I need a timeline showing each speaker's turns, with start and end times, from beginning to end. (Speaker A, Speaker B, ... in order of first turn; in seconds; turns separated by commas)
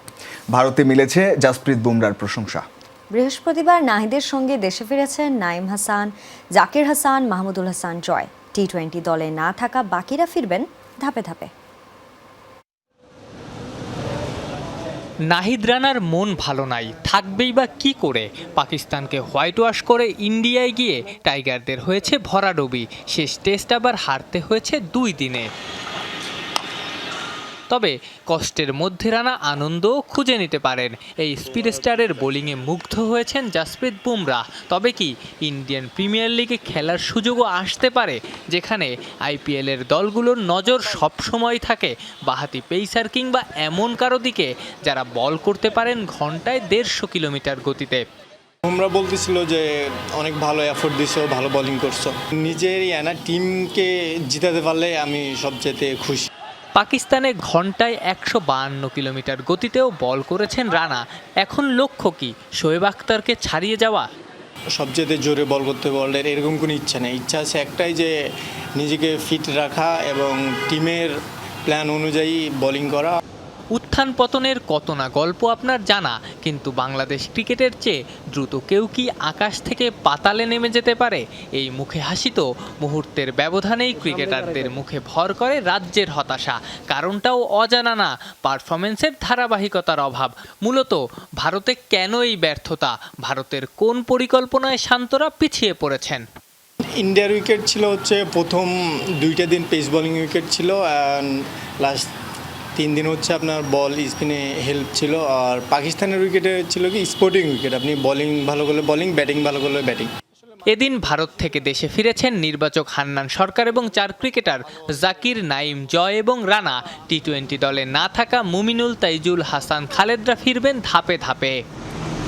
Speaker A: 0.5-2.6, Speaker B: 3.1-11.5, Speaker C: 15.3-25.5, Speaker C: 27.7-48.0, Speaker D: 48.6-56.3, Speaker C: 56.7-64.1, Speaker D: 64.7-68.1, Speaker D: 68.8-71.1, Speaker D: 71.7-73.2, Speaker C: 73.7-96.2, Speaker D: 97.0-102.1, Speaker D: 102.8-110.1, Speaker C: 110.7-121.6